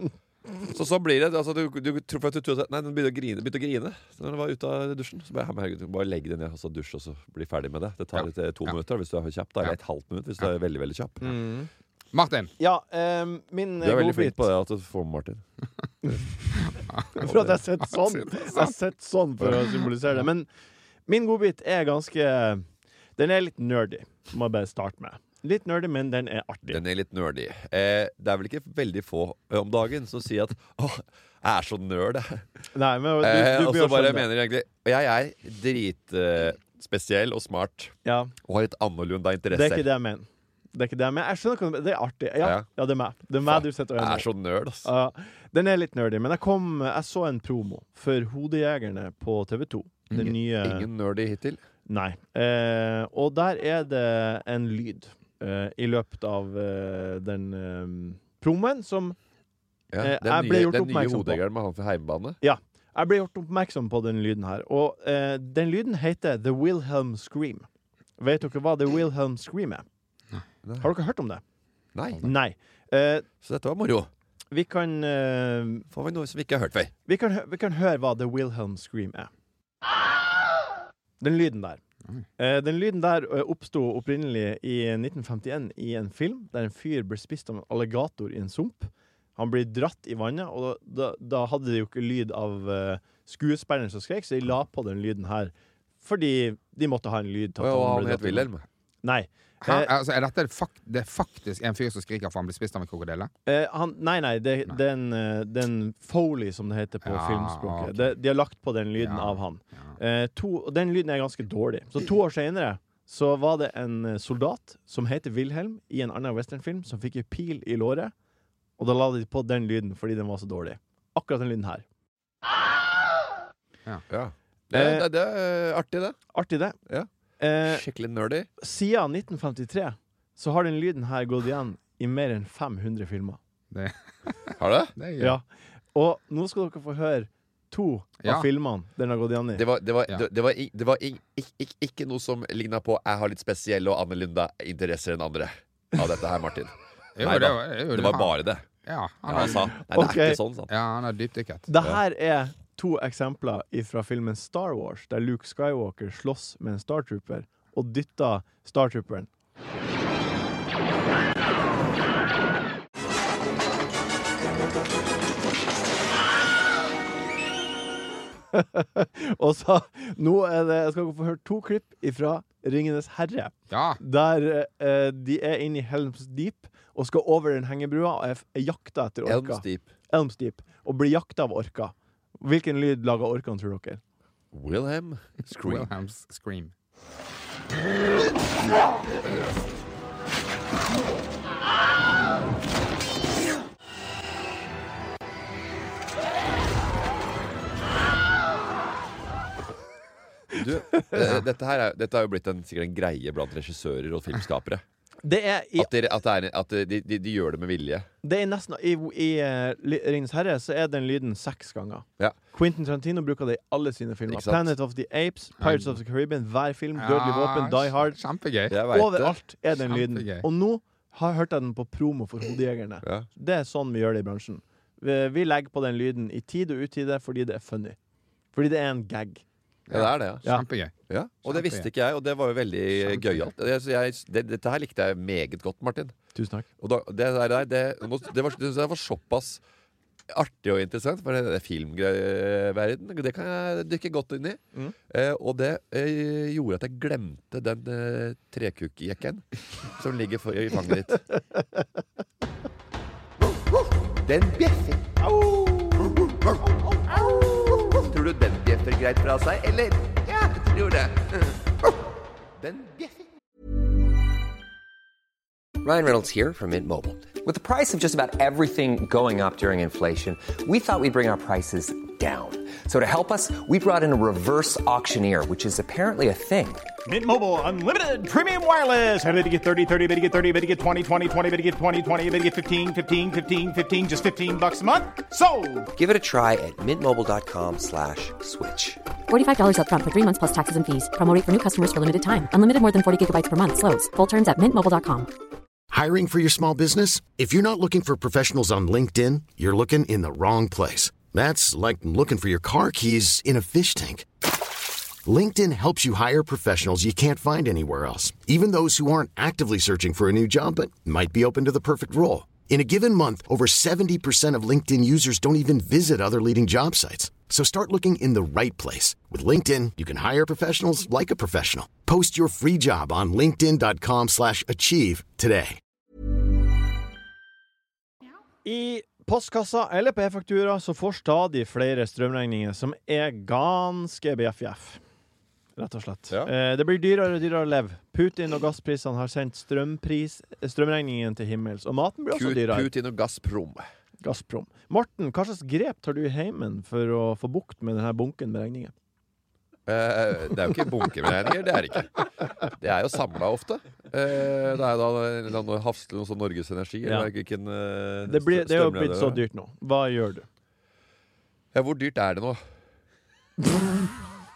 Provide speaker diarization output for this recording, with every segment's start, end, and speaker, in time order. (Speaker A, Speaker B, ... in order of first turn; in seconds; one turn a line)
Speaker A: 0.7-11.3
Speaker B: 8.2-8.7
Speaker C: 11.2-11.7
Speaker B: 12.1-12.5
Speaker C: 12.6-14.5
Speaker A: 13.8-15.4
Speaker B: 16.7-17.3
Speaker C: 17.1-20.5
Speaker B: 17.8-18.7
Speaker C: 21.1-22.6
Speaker C: 23.2-26.8
Speaker A: 26.7-32.5
Speaker C: 32.7-34.3
Speaker A: 33.2-39.9
Speaker C: 38.0-38.3
Speaker C: 39.5-44.3
Speaker A: 42.4-42.7
Speaker A: 43.5-44.9
Speaker C: 44.8-50.9
Speaker A: 50.1-51.6
Speaker C: 51.9-59.2
Speaker A: 59.9-62.4
Speaker C: 60.0-61.4
Speaker C: 62.4-67.7
Speaker C: 68.2-69.8
Speaker C: 70.8-71.4
Speaker A: 72.0-72.3
Speaker C: 72.2-73.3
Speaker A: 73.4-74.1
Speaker C: 74.5-75.9
Speaker A: 75.9-76.9
Speaker C: 77.1-79.3
Speaker C: 81.2-81.8
Speaker C: 82.4-98.5
Speaker A: 97.6-98.7
Speaker C: 99.0-99.9
Speaker B: 99.7-103.3
Speaker C: 103.5-118.1
Speaker B: 107.1-108.1
Speaker B: 109.0-110.0
Speaker C: 118.8-121.8
Speaker A: 124.1-126.2
Speaker C: 124.7-125.1
Speaker C: 126.3-126.8
Speaker C: 127.4-127.8
Speaker A: 127.7-128.5
Speaker C: 128.6-133.4
Speaker B: 133.7-135.4
Speaker A: 134.6-134.9
Speaker C: 135.2-139.7
Speaker A: 139.6-148.7
Speaker B: 147.2-149.7
Speaker A: 149.2-150.7
Speaker C: 149.8-150.4
Speaker B: 150.7-151.7
Speaker C: 151.7-159.3
Speaker C: 168.5-184.0
Speaker B: 173.7-174.0
Speaker A: 179.2-179.9
Speaker A: 184.5-185.9
Speaker B: 185.6-186.7
Speaker A: 200.5-204.8
Speaker C: 200.9-201.2
Speaker C: 205.2-205.9
Speaker A: 205.8-208.1
Speaker C: 208.2-218.2
Speaker A: 214.3-214.7
Speaker B: 215.6-216.0
Speaker B: 217.0-218.8
Speaker A: 218.7-219.3
Speaker C: 218.9-228.0
Speaker B: 219.8-220.5
Speaker A: 223.0-223.3
Speaker C: 228.5-229.4
Speaker B: 229.9-230.9
Speaker A: 229.9-230.5
Speaker A: 231.1-236.2
Speaker B: 231.5-231.9
Speaker B: 233.1-233.5
Speaker C: 236.3-236.7
Speaker A: 236.8-239.6
Speaker A: 240.3-251.2
Speaker A: 254.2-261.5
Speaker D: 254.3-255.0
Speaker A: 262.6-263.2
Speaker D: 265.8-276.8
Speaker E: 277.1-285.9
Speaker D: 285.9-289.0
Speaker F: 289.3-295.3
Speaker G: 295.9-304.3
Speaker G: 305.2-325.8
Speaker C: 328.6-335.0
Speaker C: 335.8-342.9
Speaker A: 342.3-343.9
Speaker C: 344.2-348.9
Speaker A: 349.9-359.4
Speaker C: 357.0-357.3
Speaker C: 358.3-360.5
Speaker A: 361.7-362.6